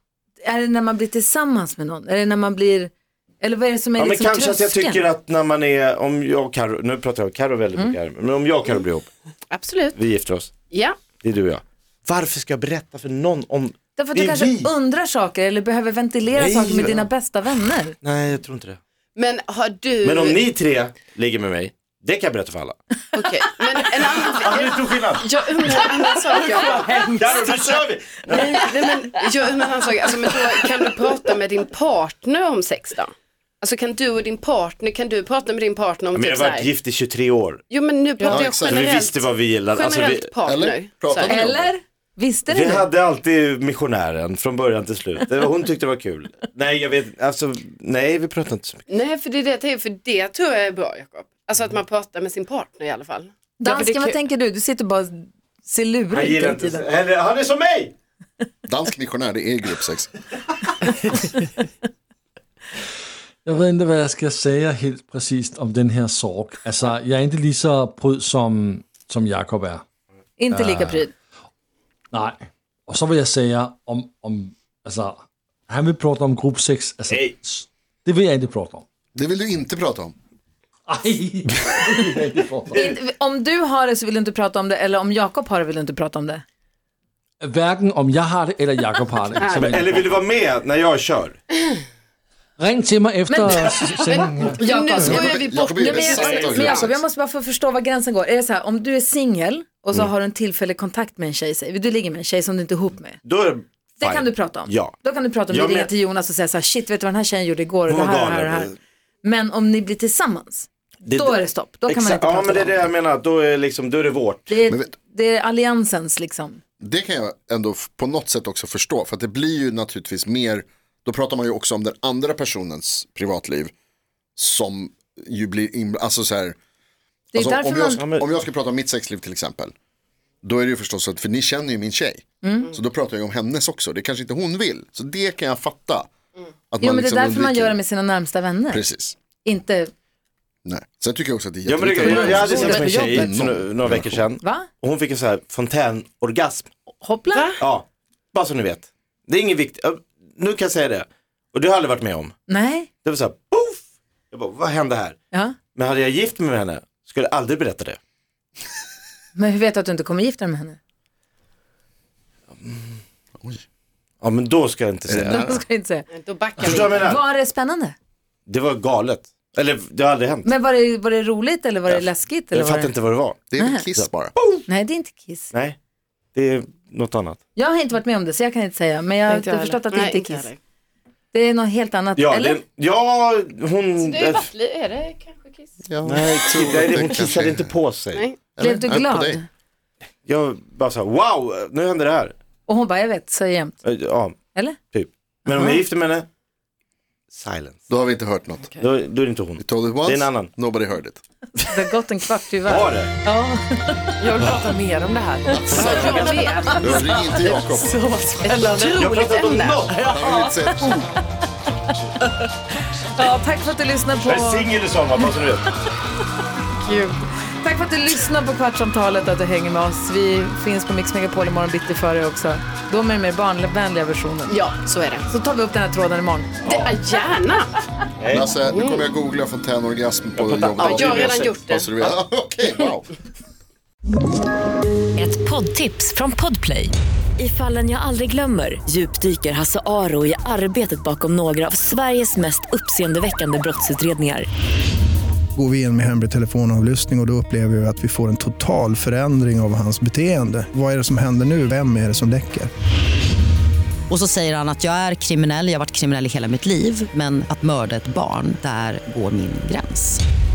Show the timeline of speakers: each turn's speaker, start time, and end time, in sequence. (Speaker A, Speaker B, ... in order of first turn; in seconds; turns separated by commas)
Speaker A: 0.4-5.0, Speaker B: 4.0-9.1, Speaker C: 9.5-10.0, Speaker B: 9.9-10.5, Speaker C: 10.7-11.0, Speaker B: 11.2-14.7, Speaker A: 13.9-18.0, Speaker B: 16.3-17.1, Speaker B: 18.0-18.8, Speaker C: 19.1-20.4, Speaker B: 20.0-22.8, Speaker C: 23.1-27.6, Speaker B: 24.2-28.9, Speaker C: 28.2-36.7, Speaker B: 36.1-37.6, Speaker C: 37.7-41.4, Speaker D: 38.3-38.9, Speaker B: 38.5-40.3, Speaker D: 40.5-41.7, Speaker A: 41.2-42.9, Speaker B: 42.5-48.8, Speaker C: 48.9-53.3, Speaker A: 53.6-56.9, Speaker E: 53.6-54.1, Speaker B: 56.1-57.9, Speaker D: 58.6-60.1, Speaker A: 61.0-61.3, Speaker F: 63.5-69.8, Speaker A: 70.4-71.1, Speaker F: 70.5-71.1, Speaker F: 72.1-78.8, Speaker B: 77.1-77.3, Speaker D: 79.1-80.1, Speaker F: 80.9-82.9, Speaker B: 81.6-83.0, Speaker A: 82.7-86.4, Speaker F: 87.4-90.2, Speaker C: 89.4-89.8, Speaker B: 89.6-91.4, Speaker F: 92.6-95.2, Speaker A: 93.3-103.2, Speaker C: 94.1-96.9, Speaker D: 95.0-97.0, Speaker B: 103.2-105.0, Speaker A: 104.0-112.9, Speaker B: 105.5-105.9, Speaker B: 107.9-108.8, Speaker B: 111.0-114.5, Speaker A: 114.5-116.6, Speaker D: 116.8-123.7, Speaker D: 124.4-126.6, Speaker A: 127.3-128.0, Speaker D: 127.3-129.7, Speaker B: 128.0-128.3, Speaker D: 130.4-136.1, Speaker A: 132.4-132.7, Speaker D: 136.7-137.8, Speaker A: 136.8-138.8, Speaker D: 138.7-139.2, Speaker A: 139.4-139.9, Speaker D: 140.6-144.2, Speaker B: 141.7-146.7, Speaker A: 142.0-143.3, Speaker A: 144.4-144.7, Speaker A: 147.0-147.5, Speaker C: 147.3-147.6, Speaker B: 147.6-152.3, Speaker A: 152.5-152.9, Speaker B: 153.0-155.2, Speaker B: 155.7-158.0, Speaker A: 159.3-160.8, Speaker B: 164.2-165.4, Speaker D: 165.1-165.6, Speaker A: 165.3-166.1, Speaker C: 166.1-167.2, Speaker B: 166.6-167.2, Speaker A: 166.8-167.9, Speaker B: 168.5-170.5, Speaker A: 170.4-172.9, Speaker B: 171.9-173.4, Speaker D: 173.5-174.3, Speaker A: 173.6-173.8, Speaker B: 174.0-174.6, Speaker A: 174.7-175.5, Speaker B: 175.5-175.8, Speaker B: 176.3-177.4, Speaker A: 177.5-180.5, Speaker E: 179.3-179.8, Speaker C: 179.9-180.6, Speaker A: 181.3-182.6, Speaker B: 182.2-184.5, Speaker C: 184.0-185.8, Speaker D: 185.8-187.7, Speaker B: 186.0-188.2, Speaker D: 188.6-189.4, Speaker A: 188.6-189.4, Speaker B: 190.2-192.3, Speaker A: 192.7-193.8, Speaker B: 193.8-194.3, Speaker B: 194.9-196.3, Speaker A: 195.5-195.8, Speaker B: 197.3-197.8, Speaker D: 197.9-198.7, Speaker B: 198.8-200.5, Speaker D: 199.6-201.2, Speaker A: 201.7-204.2, Speaker B: 202.7-203.1, Speaker E: 204.2-210.9, Speaker D: 205.5-208.1, Speaker A: 205.6-207.2, Speaker B: 205.9-206.4, Speaker C: 206.1-206.7, Speaker C: 208.4-209.8, Speaker B: 208.8-210.0, Speaker D: 210.0-211.1, Speaker A: 213.2-214.7, Speaker B: 214.2-215.7, Speaker C: 216.8-217.2, Speaker A: 217.6-224.5, Speaker C: 224.5-225.3, Speaker A: 225.3-226.5, Speaker B: 226.6-226.9, Speaker C: 226.6-227.7, Speaker B: 228.2-228.5, Speaker D: 228.3-233.1, Speaker C: 228.7-229.0, Speaker B: 230.4-232.2, Speaker C: 230.8-231.9, Speaker G: 235.2-244.5, Speaker H: 245.6-252.7, Speaker G: 254.1-260.2